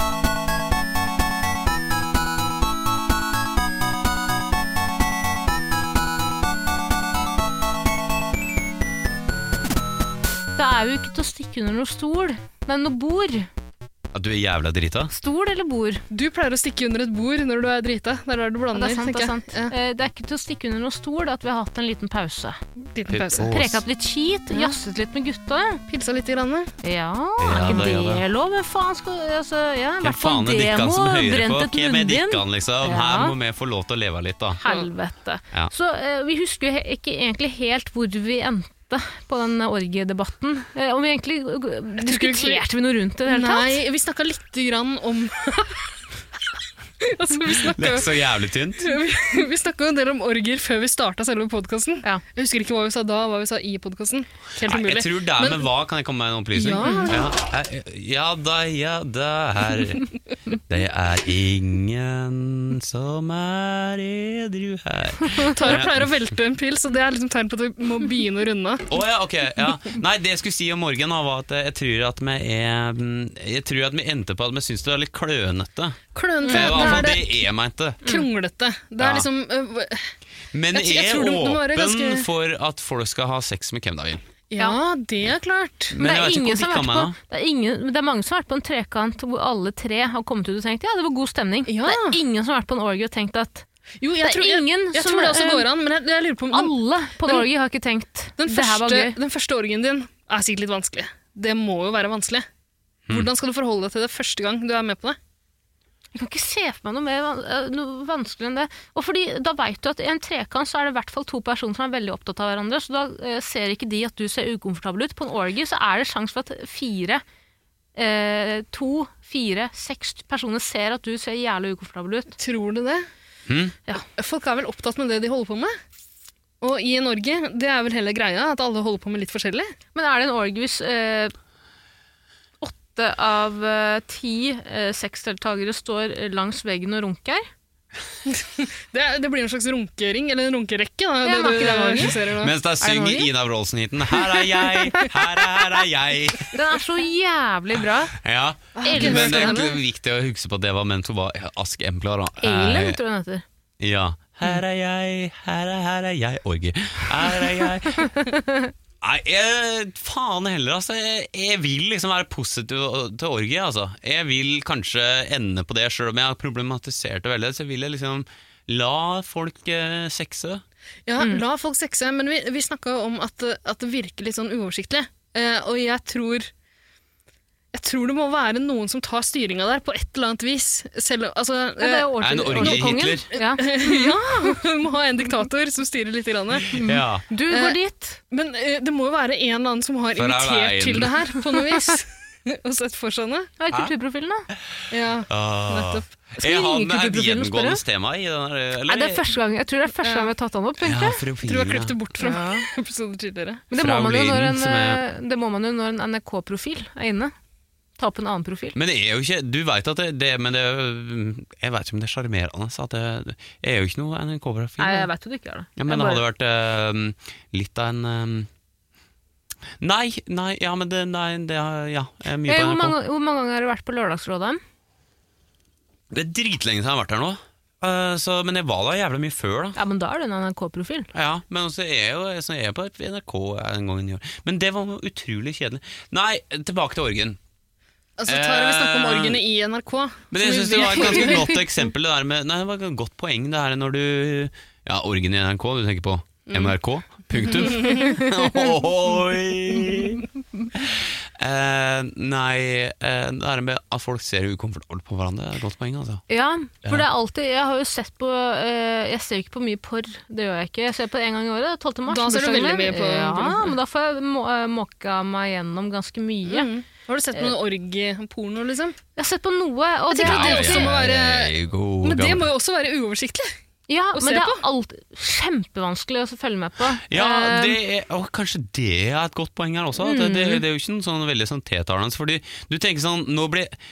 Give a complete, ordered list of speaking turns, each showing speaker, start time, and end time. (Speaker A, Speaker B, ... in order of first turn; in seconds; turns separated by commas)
Speaker A: 10.6-13.5, Speaker B: 14.1-15.1, Speaker A: 15.1-16.0, Speaker C: 16.1-19.7, Speaker A: 18.7-22.6, Speaker C: 22.9-23.5, Speaker B: 23.1-23.8, Speaker A: 23.4-25.8, Speaker C: 25.9-26.7, Speaker A: 26.8-33.3, Speaker B: 27.4-28.2, Speaker B: 30.0-34.6, Speaker A: 34.6-43.8, Speaker C: 42.0-42.6, Speaker C: 43.2-45.9, Speaker C: 47.0-48.2, Speaker B: 47.6-48.9, Speaker C: 48.8-55.7, Speaker B: 54.6-60.1, Speaker C: 56.5-57.2, Speaker A: 56.8-57.1, Speaker B: 60.7-66.1, Speaker C: 65.5-68.8, Speaker B: 68.9-78.1, Speaker C: 76.1-77.3, Speaker A: 76.4-77.1, Speaker C: 78.0-80.0, Speaker B: 79.0-79.3, Speaker B: 80.5-84.2, Speaker C: 80.7-82.3, Speaker C: 84.5-85.9, Speaker B: 85.9-87.1, Speaker A: 86.0-93.7, Speaker C: 91.7-92.2, Speaker C: 94.0-96.7, Speaker A: 94.2-95.7, Speaker A: 96.5-99.2, Speaker C: 98.4-102.5, Speaker C: 103.1-105.2, Speaker A: 106.1-117.2, Speaker A: 118.0-122.3, Speaker C: 122.4-123.1, Speaker B: 123.5-123.8, Speaker C: 124.2-125.8, Speaker C: 126.6-129.7, Speaker A: 129.9-131.3, Speaker A: 132.6-137.5, Speaker C: 138.3-142.5, Speaker A: 141.2-142.2, Speaker B: 142.4-146.6, Speaker A: 142.8-143.3, Speaker A: 146.5-148.1, Speaker B: 148.1-153.0, Speaker C: 148.8-149.8, Speaker A: 148.8-149.7, Speaker A: 152.4-153.4, Speaker B: 153.8-158.1, Speaker A: 157.9-158.7, Speaker B: 159.0-170.6, Speaker C: 171.1-176.5, Speaker C: 177.7-186.8, Speaker A: 181.8-184.6, Speaker B: 182.2-183.3, Speaker B: 186.7-187.2, Speaker A: 186.7-188.2, Speaker C: 187.5-187.8, Speaker C: 188.3-193.5, Speaker B: 190.1-191.1, Speaker A: 193.6-194.5, Speaker B: 194.5-199.2, Speaker C: 194.9-196.0, Speaker A: 196.4-197.8, Speaker A: 198.9-201.2, Speaker C: 200.0-200.3, Speaker B: 200.8-201.9, Speaker C: 201.4-203.6, Speaker A: 202.2-202.7, Speaker A: 203.7-207.3, Speaker B: 203.8-205.0, Speaker A: 208.0-208.8, Speaker B: 208.7-215.1, Speaker A: 214.8-216.2, Speaker B: 215.8-218.5, Speaker B: 219.8-222.9, Speaker A: 222.5-224.6, Speaker B: 226.1-229.8, Speaker A: 229.8-231.1, Speaker B: 231.1-237.4, Speaker C: 238.2-241.6, Speaker B: 238.3-239.4, Speaker B: 240.3-256.2, Speaker A: 241.0-241.5, Speaker C: 247.4-248.2, Speaker A: 256.3-266.7, Speaker C: 262.1-263.8, Speaker C: 266.4-269.0, Speaker A: 269.1-270.9, Speaker C: 270.1-273.5, Speaker B: 270.2-272.5, Speaker A: 273.9-277.8, Speaker C: 274.1-274.6, Speaker B: 277.1-283.8, Speaker A: 280.0-280.6